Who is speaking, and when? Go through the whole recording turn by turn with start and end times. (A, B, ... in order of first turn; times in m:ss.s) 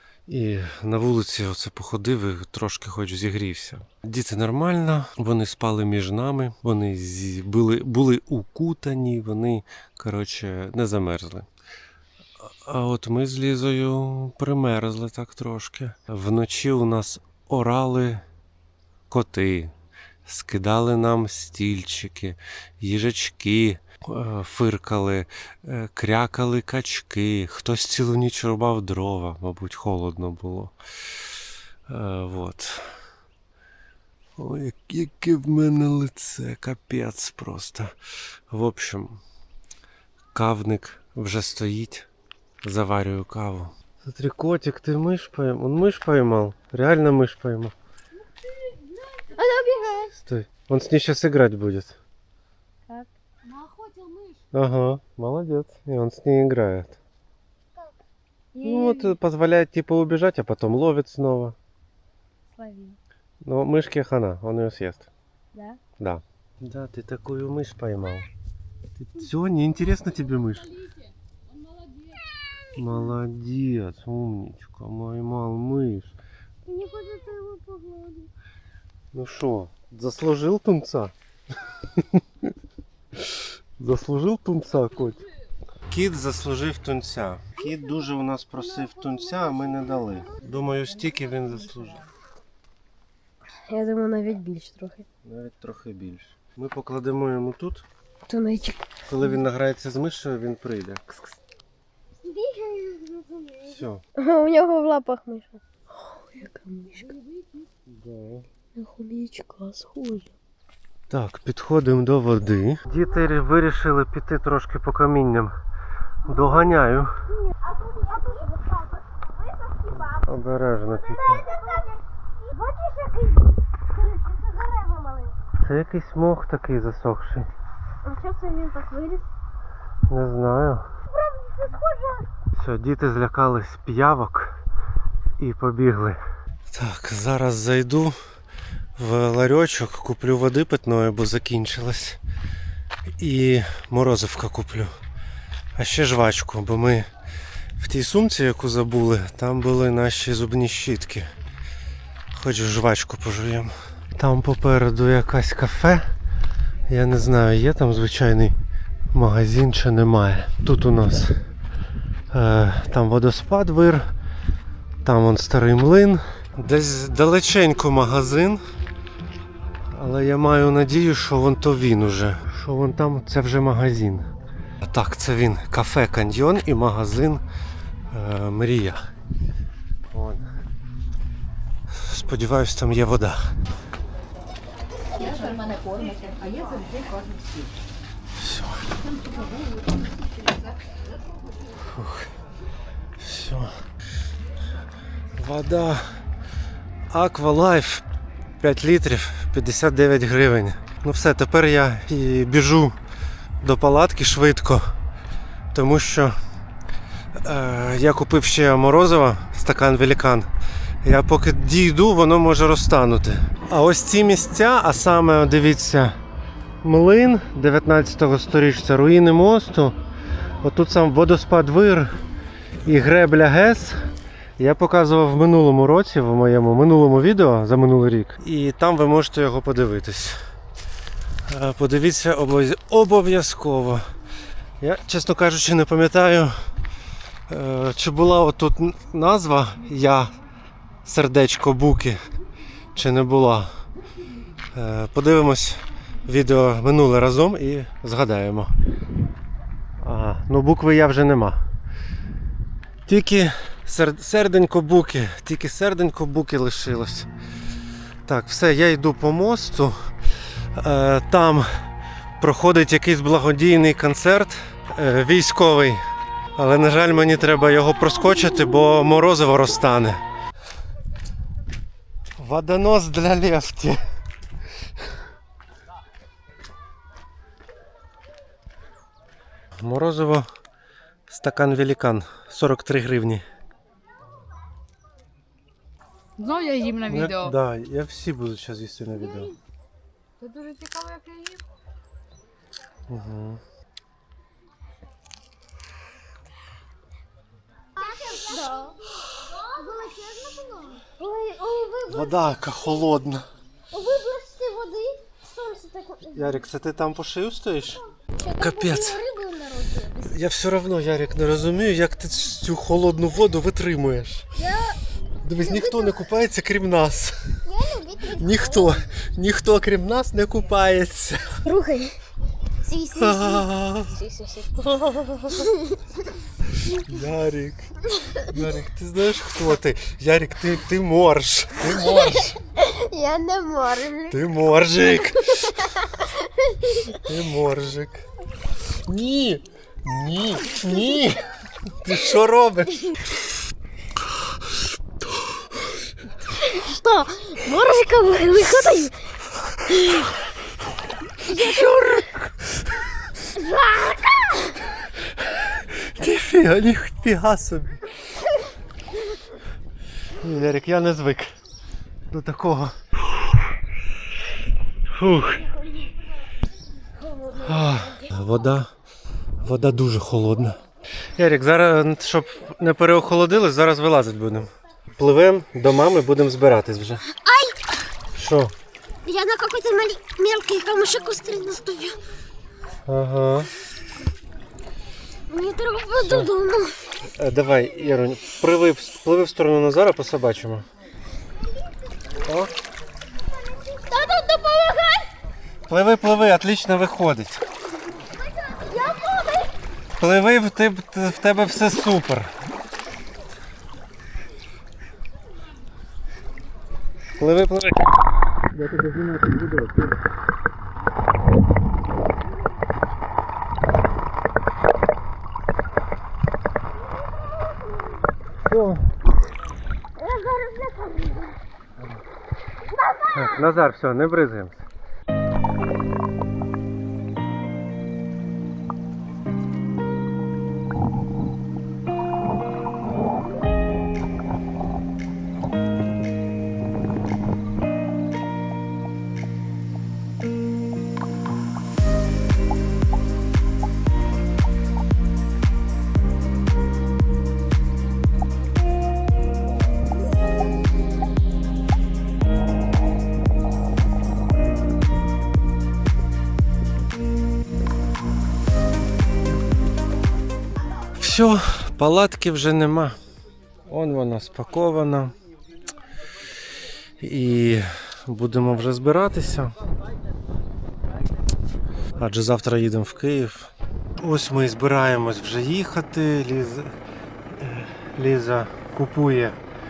0:00.3-0:11.5 A
0:12.6-0:18.2 A
0:19.1-0:19.7 A
0:20.3-0:30.7 A
0:31.9-0:32.9 A
0:34.4-0:37.9 A
0:38.5-0:39.2 A
0:40.3-0:42.1 A
0:42.6-0:47.8 A
0:49.5-0:50.1 B
0:50.2-0:52.0 A
0:52.9-0:54.4 C
0:54.5-0:57.0 A
0:58.5-0:59.2 C
0:58.6-1:01.6 A
1:02.6-1:03.0 C
1:03.4-1:05.1 A
1:06.0-1:08.3 A
1:09.0-1:10.7 A
1:12.8-1:16.2 A
1:16.7-1:18.3 B
1:19.1-1:21.1 A
1:21.9-1:22.5 A
1:23.2-1:25.2 A
1:25.9-1:32.1 A
1:28.6-1:30.4 B
1:33.7-1:35.0 D
1:35.2-1:37.9 A
1:38.3-1:38.8 D
1:39.1-1:41.4 A
1:42.2-1:43.8 B
1:43.7-1:44.0 A
1:44.2-1:47.1 D
1:47.9-1:48.5 A
1:48.8-1:50.3 D
1:51.1-1:55.5 A
1:56.2-1:57.2 A
1:57.6-2:00.1 B
2:00.2-2:01.5 A
2:01.1-2:05.4 B
2:05.6-2:07.5 A
2:08.1-2:09.2 B
2:08.6-2:09.2 D
2:10.1-2:10.9 A
2:11.1-2:12.3 B
2:12.5-2:14.6 A
2:15.4-2:16.2 A
2:16.7-2:18.2 A
2:19.0-2:22.2 A
2:23.2-2:25.0 A
2:25.8-2:27.1 A
2:27.8-2:31.3 A
2:32.3-2:36.1 A
2:36.9-2:38.6 A
2:39.1-2:41.4 A
2:42.3-2:44.1 A
2:45.0-2:48.6 A
2:49.9-2:54.3 A
2:54.8-2:57.4 A
2:58.1-2:59.0 A
3:00.1-3:00.4 A
3:02.0-3:03.5 A
3:08.4-3:08.9 A
3:11.8-3:12.3 A
3:13.2-3:13.7 A
3:15.4-3:16.2 A
3:17.1-3:18.0 A
3:18.6-3:23.0 A
3:23.6-3:24.9 A
3:25.7-3:26.4 A
3:27.4-3:30.5 A
3:31.0-3:36.2 A
3:36.8-3:40.0 A
3:40.6-3:42.2 A
3:42.8-3:44.0 A
3:44.6-3:50.4 A
3:51.5-3:54.0 A
3:54.8-3:56.6 A
3:57.5-4:00.4 A
4:01.0-4:02.2 A
4:03.0-4:03.7 A
4:04.7-4:08.7 A
4:10.0-4:11.6 A
4:13.1-4:17.3 A
4:18.3-4:20.1 A
4:20.8-4:21.7 A
4:22.4-4:26.0 A
4:26.6-4:30.2 A
4:32.4-4:34.0 A
4:39.8-4:40.5 A
4:41.3-4:43.4 A
4:46.4-4:47.6 C
4:47.1-4:49.5 A
4:50.4-4:51.6 C
4:53.1-4:53.6 A
4:58.0-4:59.0 B
4:59.6-5:03.1 B
5:02.1-5:03.4 A
5:03.9-5:06.7 B
5:06.4-5:08.0 A
5:08.2-5:10.3 B
5:08.6-5:09.2 A
5:10.3-5:14.5 A
5:14.6-5:15.0 B
5:15.4-5:17.6 A
5:15.6-5:16.3 B
5:17.6-5:19.0 B
5:18.4-5:21.6 A
5:21.6-5:22.2 B
5:22.8-5:23.6 B
5:23.1-5:24.2 A
5:26.8-5:32.6 A
5:32.0-5:34.4 B
5:34.3-5:36.1 A
5:37.1-5:38.2 A
5:39.0-5:43.1 A
5:46.6-5:49.1 B
5:47.8-5:48.9 D
5:51.4-5:52.8 A
5:53.6-5:54.8 B
5:55.4-5:58.0 A
6:00.3-6:01.5 A
6:02.3-6:03.0 A
6:05.1-6:05.6 A
6:07.2-6:08.0 B
6:07.6-6:08.9 A
6:09.6-6:10.8 A
6:11.4-6:17.2 A
6:17.3-6:17.8 B
6:18.3-6:18.7 A
6:19.3-6:22.2 B
6:23.1-6:23.7 A
6:25.5-6:26.9 B
6:26.2-6:26.5 A
6:27.2-6:30.9 A
6:31.6-6:32.3 B
6:32.4-6:32.7 A
6:33.5-6:35.3 B
6:35.9-6:37.6 A
6:38.4-6:39.8 B
6:40.2-6:42.5 A
6:47.4-6:48.1 A
6:48.8-6:49.9 A
6:57.4-6:58.3 B
6:58.6-6:59.0 A
7:00.2-7:01.6 B
7:02.9-7:03.6 B
7:03.3-7:04.9 A
7:41.2-7:43.2 A
7:43.9-7:45.3 A
7:47.2-7:49.8 A
7:52.2-7:56.9 A
7:57.5-7:59.6 A